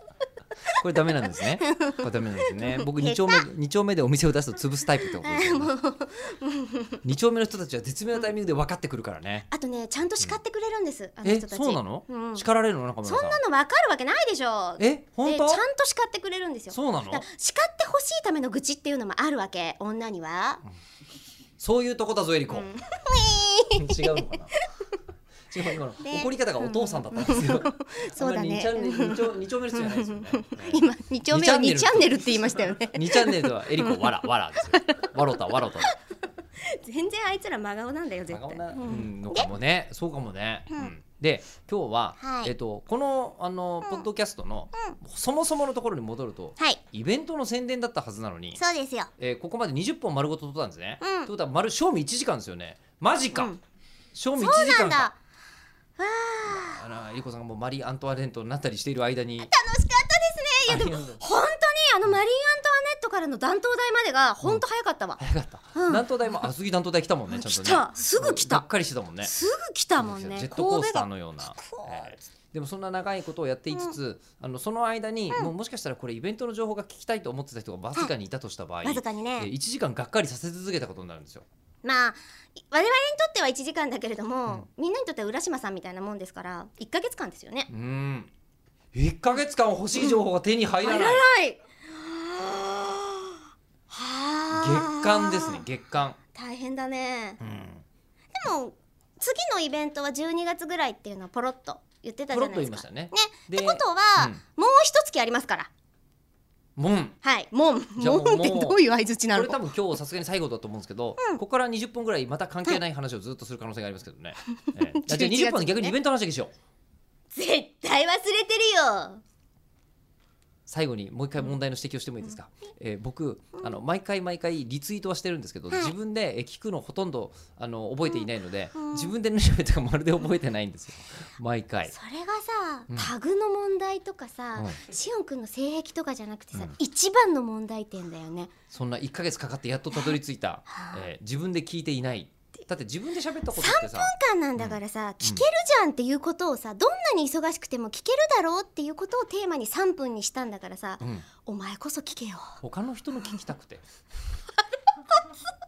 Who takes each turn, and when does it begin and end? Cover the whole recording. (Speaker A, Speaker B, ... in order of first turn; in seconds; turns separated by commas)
Speaker A: 0.8-5.7, Speaker B: 1.2-3.4, Speaker B: 5.0-7.0, Speaker A: 7.0-9.5, Speaker B: 9.5-12.4, Speaker A: 11.2-13.4, Speaker B: 13.0-20.6, Speaker A: 14.8-15.6, Speaker A: 16.7-17.2, Speaker A: 21.6-22.7, Speaker B: 22.5-24.8, Speaker A: 23.7-24.6, Speaker A: 25.5-35.9, Speaker B: 26.0-35.1, Speaker B: 36.5-39.5, Speaker A: 38.3-48.6, Speaker B: 42.2-42.5, Speaker B: 48.5-49.1, Speaker A: 49.2-53.5, Speaker B: 51.0-51.3, Speaker B: 53.3-53.6, Speaker A: 54.1-55.1, Speaker B: 54.4-55.1, Speaker B: 56.0-56.8, Speaker A: 56.4-59.5, Speaker B: 59.4-65.2, Speaker A: 60.7-61.2, Speaker A: 65.2-69.3, Speaker B: 65.7-66.5, Speaker B: 67.3-68.6, Speaker B: 69.2-72.2, Speaker A: 70.0-81.5, Speaker B: 73.7-74.0, Speaker B: 78.8-79.5, Speaker B: 81.8-87.7, Speaker A: 87.7-88.3, Speaker A: 88.9-91.2, Speaker B: 90.8-95.7, Speaker A: 94.5-96.2, Speaker B: 96.3-97.4, Speaker A: 97.4-97.8, Speaker B: 98.3-105.7, Speaker A: 102.3-104.4, Speaker A: 106.8-107.2, Speaker B: 107.2-109.6, Speaker A: 108.0-108.8, Speaker A: 109.3-116.5, Speaker B: 114.7-116.0, Speaker B: 117.3-119.2, Speaker A: 120.7-131.9, Speaker B: 128.1-129.1, Speaker B: 131.9-138.5, Speaker A: 138.7-145.4, Speaker B: 140.7-141.0, Speaker B: 143.5-152.6, Speaker A: 151.0-151.3, Speaker A: 152.6-153.8